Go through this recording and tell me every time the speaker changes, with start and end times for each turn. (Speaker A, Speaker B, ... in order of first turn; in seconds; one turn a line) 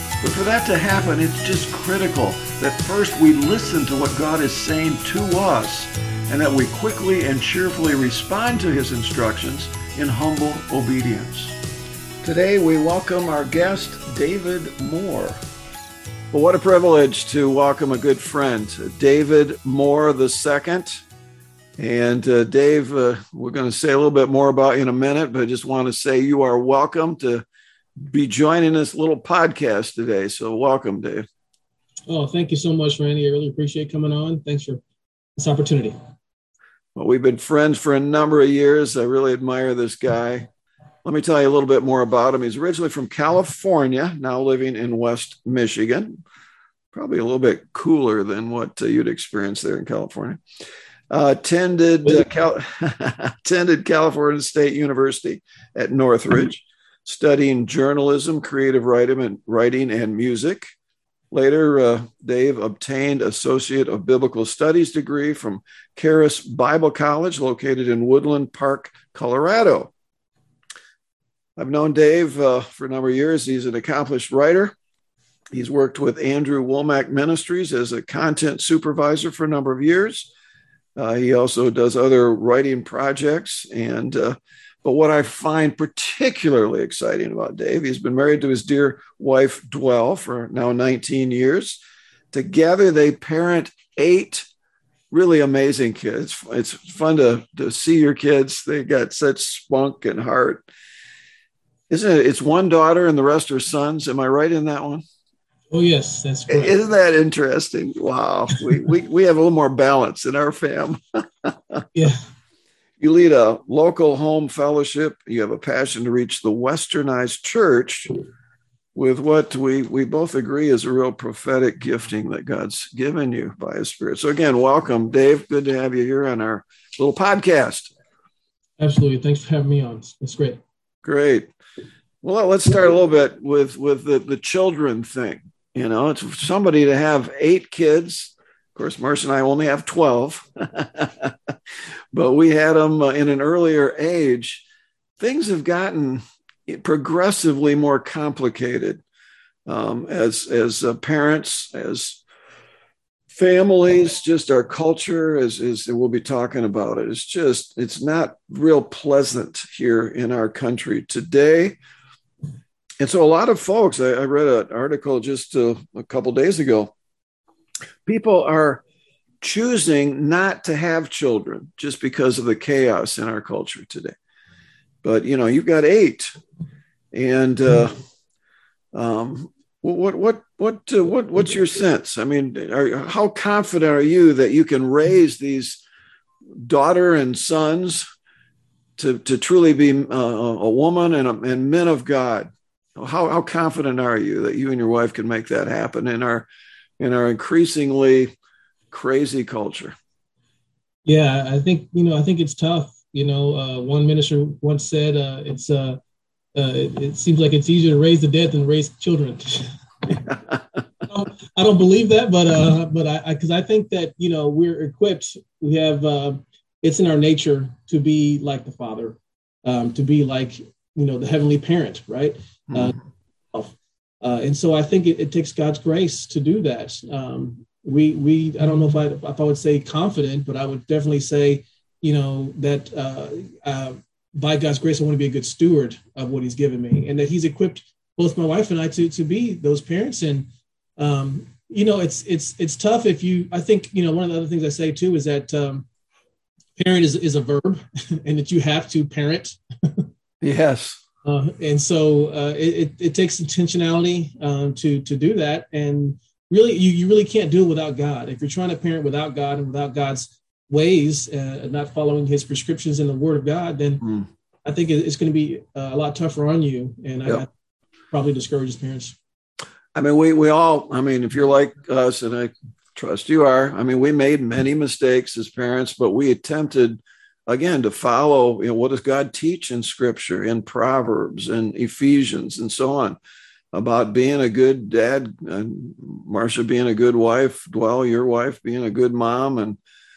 Speaker A: 0.2-11.6
Speaker A: 12.2-15.4
Speaker A: 16.3-21.0
Speaker A: 21.8-27.4
Speaker A: 28.0-31.3
Speaker B: 32.1-34.8
Speaker B: 35.4-36.0
Speaker A: 37.0-40.5
Speaker A: 41.0-46.2
Speaker A: 46.9-50.4
Speaker A: 51.1-60.6
Speaker A: 61.3-69.9
Speaker A: 71.6-74.8
Speaker A: 75.5-80.3
Speaker A: 81.0-91.8
Speaker A: 92.3-94.5
Speaker A: 95.1-100.7
Speaker A: 101.9-105.0
Speaker B: 105.7-106.8
Speaker A: 106.5-111.8
Speaker A: 113.0-118.1
Speaker A: 119.0-127.9
Speaker B: 128.8-130.6
Speaker A: 131.0-131.5
Speaker A: 132.2-141.3
Speaker A: 142.1-144.6
Speaker A: 145.2-149.0
Speaker A: 149.7-152.2
Speaker A: 153.3-161.8
Speaker A: 163.0-166.9
Speaker A: 168.1-168.8
Speaker A: 169.4-174.2
Speaker A: 175.0-176.3
Speaker A: 177.1-178.0
Speaker A: 178.9-185.8
Speaker A: 186.6-188.1
Speaker A: 189.0-196.5
Speaker A: 197.0-198.3
Speaker A: 198.9-199.9
Speaker B: 201.1-206.0
Speaker B: 206.6-210.2
Speaker B: 211.1-223.0
Speaker A: 222.7-222.9
Speaker B: 223.5-245.9
Speaker B: 246.8-250.1
Speaker A: 250.4-251.0
Speaker B: 251.2-264.1
Speaker B: 264.6-267.5
Speaker B: 268.1-269.2
Speaker A: 269.9-283.2
Speaker A: 283.7-289.8